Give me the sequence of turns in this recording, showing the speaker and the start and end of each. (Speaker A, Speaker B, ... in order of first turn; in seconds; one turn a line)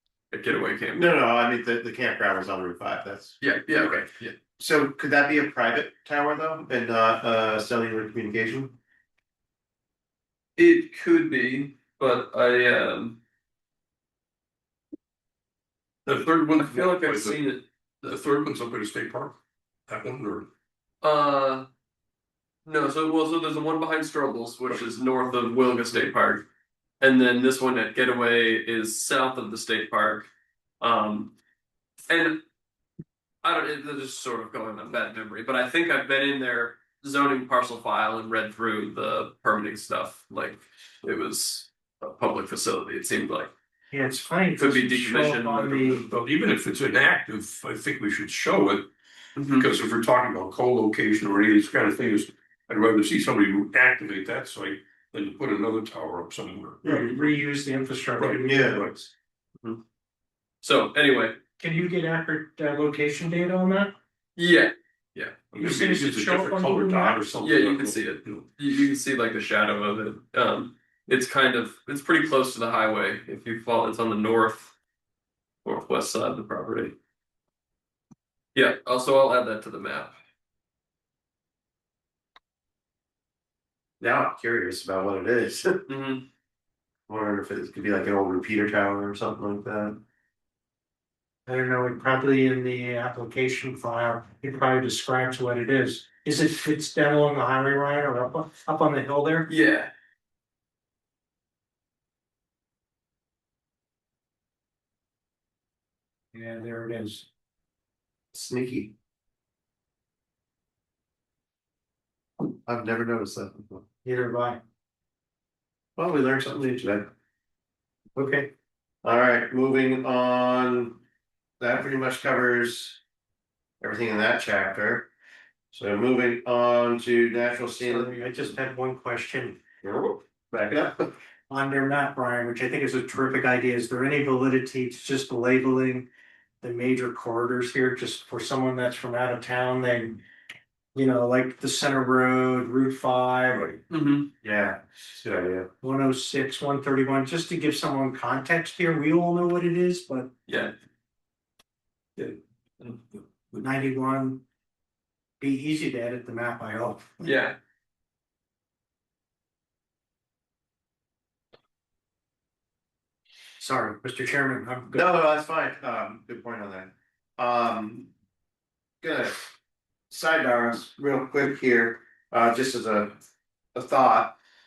Speaker A: 0.3-1.1
Speaker B: 0.9-4.0
Speaker A: 3.4-4.3
Speaker B: 4.6-8.7
Speaker A: 10.6-13.2
Speaker C: 16.1-17.5
Speaker A: 16.4-18.2
Speaker C: 18.0-19.4
Speaker C: 19.9-20.5
Speaker A: 21.0-21.7
Speaker A: 22.6-26.4
Speaker A: 27.0-30.3
Speaker A: 30.8-31.3
Speaker A: 32.1-32.4
Speaker A: 33.4-43.5
Speaker D: 43.9-46.0
Speaker A: 44.5-46.1
Speaker C: 46.0-48.9
Speaker A: 49.4-49.7
Speaker C: 49.4-57.1
Speaker D: 56.8-58.7
Speaker C: 58.2-59.1
Speaker B: 58.4-58.8
Speaker A: 60.6-61.4
Speaker D: 61.6-63.9
Speaker A: 64.3-65.4
Speaker C: 65.5-68.4
Speaker D: 65.6-67.2
Speaker A: 67.4-74.7
Speaker A: 75.6-77.0
Speaker A: 78.5-80.1
Speaker B: 84.0-85.8
Speaker A: 85.9-86.2
Speaker B: 87.1-90.0
Speaker D: 91.5-99.5
Speaker A: 99.5-99.9
Speaker D: 106.3-107.3
Speaker B: 108.3-108.9
Speaker B: 112.7-113.8
Speaker D: 114.0-114.6
Speaker B: 116.0-117.1
Speaker D: 118.2-118.5
Speaker B: 119.0-121.0
Speaker B: 121.6-123.0
Speaker B: 123.8-125.1
Speaker B: 125.7-128.5
Speaker D: 127.8-129.6
Speaker B: 129.8-131.1
Speaker D: 131.5-136.1
Speaker D: 136.6-140.2
Speaker D: 140.9-143.8
Speaker A: 143.9-144.3
Speaker B: 144.4-145.7
Speaker D: 145.8-150.3
Speaker A: 150.5-150.7
Speaker C: 152.2-153.6
Speaker D: 153.6-154.4
Speaker D: 155.4-157.3
Speaker A: 157.2-157.6
Speaker D: 163.6-165.0
Speaker B: 164.9-168.1
Speaker B: 169.0-169.3
Speaker B: 170.1-173.2
Speaker B: 173.7-174.3